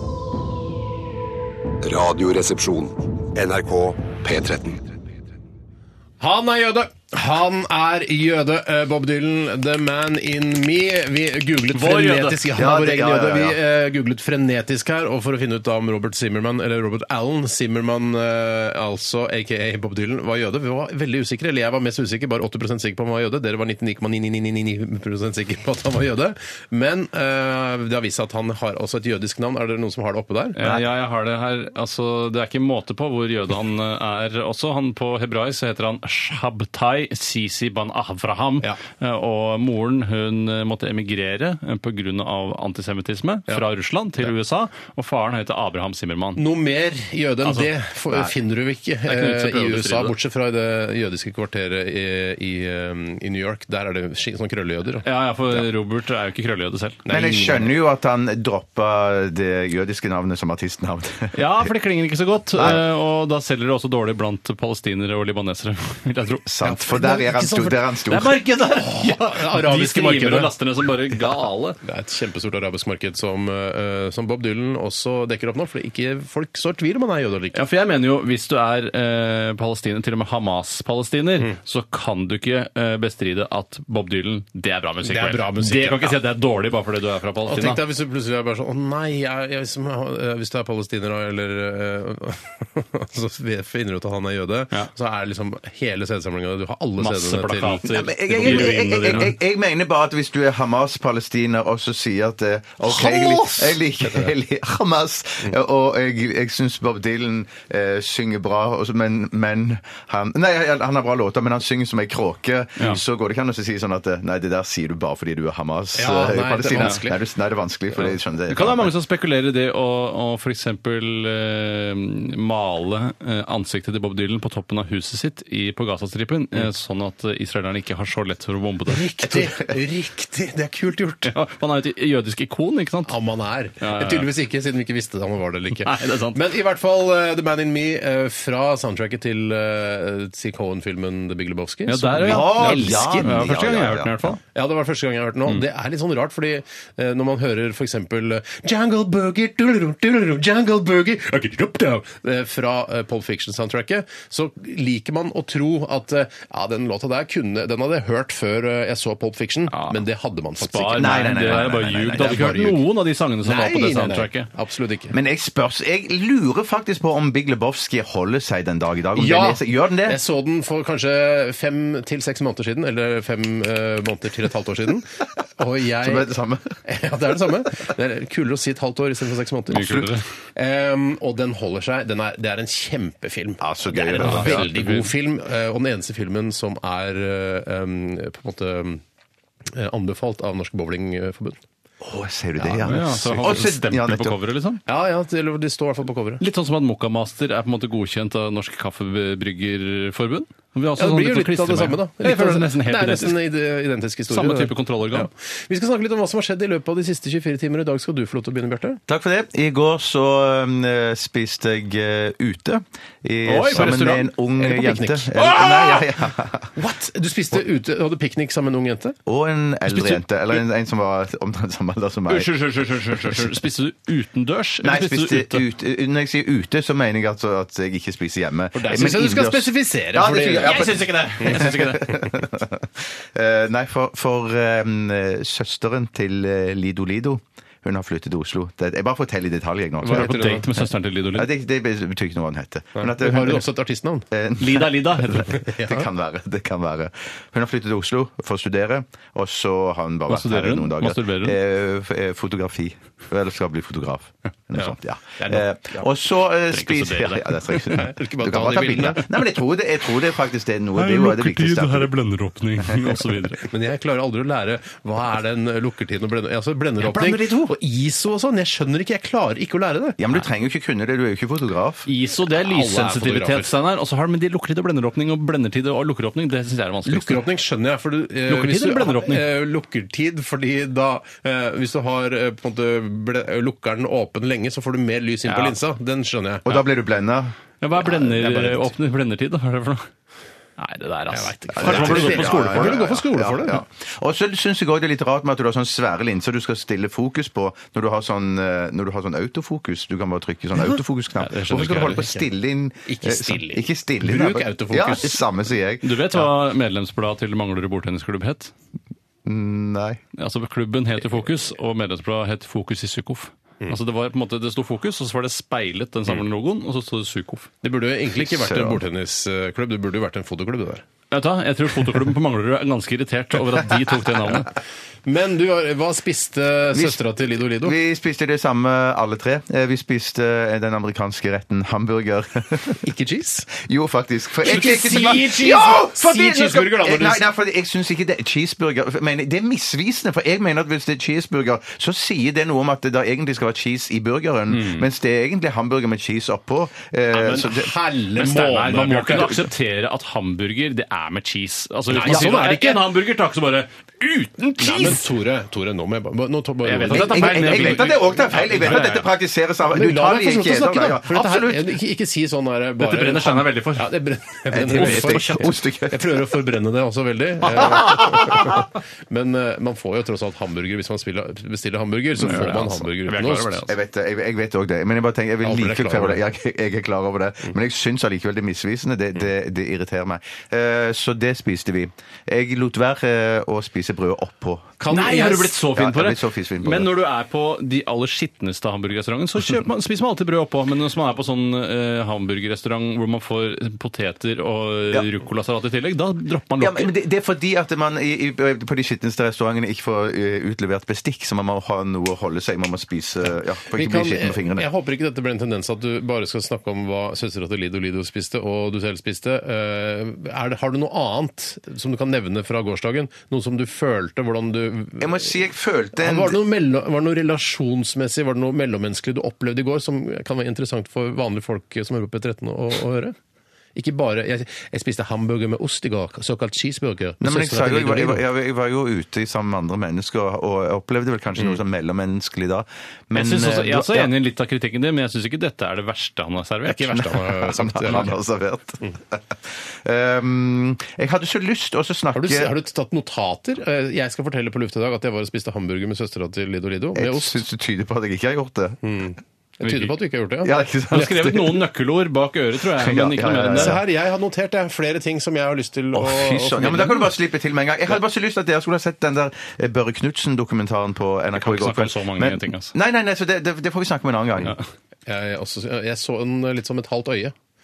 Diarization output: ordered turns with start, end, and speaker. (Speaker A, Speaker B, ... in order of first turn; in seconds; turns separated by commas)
Speaker A: 1.8-4.9, Speaker B: 6.2-30.8, Speaker C: 11.7-12.5, Speaker D: 12.6-13.6, Speaker C: 30.6-46.4, Speaker B: 46.4-55.1, Speaker C: 47.4-48.3, Speaker C: 49.1-50.1, Speaker C: 55.0-57.0, Speaker B: 57.0-57.7, Speaker D: 57.1-61.5, Speaker C: 61.3-66.5, Speaker D: 62.5-62.8, Speaker D: 66.5-68.4, Speaker B: 66.6-67.8, Speaker C: 68.1-71.8, Speaker B: 68.8-70.5, Speaker B: 71.8-77.6, Speaker C: 77.5-87.8, Speaker B: 85.0-86.2, Speaker B: 87.5-98.8, Speaker C: 97.0-99.3, Speaker D: 97.9-118.9, Speaker B: 102.8-104.3, Speaker B: 116.0-117.2, Speaker C: 118.0-129.1, Speaker B: 128.9-131.3, Speaker C: 131.3-133.2, Speaker B: 133.1-143.3, Speaker C: 133.8-134.3, Speaker C: 135.8-136.4, Speaker C: 141.9-144.4, Speaker D: 142.2-144.4, Speaker B: 144.6-161.1, Speaker C: 159.7-160.0, Speaker C: 160.6-164.5, Speaker D: 160.8-162.8, Speaker B: 162.2-162.8, Speaker B: 163.4-165.2, Speaker D: 165.1-170.2, Speaker B: 169.2-176.3, Speaker D: 176.0-176.7, Speaker B: 176.8-189.0, Speaker C: 179.7-180.2, Speaker D: 179.7-180.1, Speaker D: 183.6-184.7, Speaker C: 184.2-185.1, Speaker B: 189.7-191.6, Speaker D: 192.0-194.4, Speaker B: 192.6-193.6, Speaker C: 192.8-194.8, Speaker B: 194.9-196.4, Speaker C: 196.4-203.4, Speaker B: 201.0-209.0, Speaker C: 204.3-205.3, Speaker D: 209.1-216.7, Speaker C: 213.4-214.3, Speaker B: 214.6-216.1, Speaker B: 216.8-219.2, Speaker D: 219.3-222.5, Speaker C: 219.9-220.2, Speaker C: 222.3-225.6, Speaker D: 223.0-223.6, Speaker D: 224.8-240.4, Speaker B: 228.8-230.9, Speaker C: 230.6-232.2, Speaker B: 240.0-240.7, Speaker C: 240.0-241.5, Speaker D: 241.3-243.7, Speaker B: 243.0-244.2, Speaker D: 244.3-262.1, Speaker C: 244.6-245.5, Speaker B: 245.5-246.1, Speaker C: 250.3-251.6, Speaker B: 254.8-256.1, Speaker C: 256.7-258.0, Speaker B: 257.9-259.2, Speaker C: 261.0-263.7, Speaker D: 262.9-263.2, Speaker B: 263.6-270.2, Speaker C: 267.0-267.7, Speaker D: 270.2-272.1, Speaker C: 272.1-277.4, Speaker B: 272.5-273.7, Speaker B: 277.1-286.7, Speaker C: 278.5-279.5, Speaker C: 285.5-285.8, Speaker D: 286.6-287.5, Speaker C: 287.8-290.1, Speaker B: 288.0-288.9, Speaker C: 290.8-293.1, Speaker B: 291.3-293.8, Speaker D: 291.7-306.4, Speaker C: 301.4-302.3, Speaker B: 303.1-305.4, Speaker C: 306.0-308.7, Speaker D: 309.4-310.2, Speaker C: 310.4-317.7, Speaker B: 317.8-321.1, Speaker D: 318.4-319.0, Speaker C: 321.3-324.7, Speaker B: 325.3-328.0, Speaker D: 326.9-333.0, Speaker B: 333.0-333.7, Speaker D: 333.7-347.9, Speaker B: 334.6-337.4, Speaker C: 344.7-345.1, Speaker B: 347.3-349.7, Speaker C: 348.4-355.2, Speaker B: 352.1-353.1, Speaker B: 354.8-358.2, Speaker C: 356.9-359.3, Speaker D: 357.1-361.9, Speaker B: 359.9-373.9, Speaker C: 363.0-364.1, Speaker D: 364.7-366.5, Speaker C: 364.9-365.8, Speaker D: 367.8-368.9, Speaker C: 372.4-373.9, Speaker D: 373.9-385.1, Speaker B: 375.6-376.4, Speaker B: 385.0-385.8, Speaker C: 385.1-397.1, Speaker D: 385.9-387.1, Speaker D: 396.8-404.9, Speaker B: 403.9-415.5, Speaker D: 415.2-416.6, Speaker B: 416.1-423.4, Speaker B: 423.9-428.4, Speaker D: 427.4-434.3, Speaker C: 433.3-437.2, Speaker B: 436.9-438.4, Speaker D: 437.1-442.7, Speaker B: 442.3-447.6, Speaker D: 447.1-449.0, Speaker B: 449.0-450.7, Speaker C: 449.8-450.1, Speaker D: 450.6-451.8, Speaker C: 451.1-454.0, Speaker D: 452.8-454.0, Speaker B: 453.7-457.3, Speaker D: 456.1-464.8, Speaker C: 461.5-462.9, Speaker B: 465.3-467.6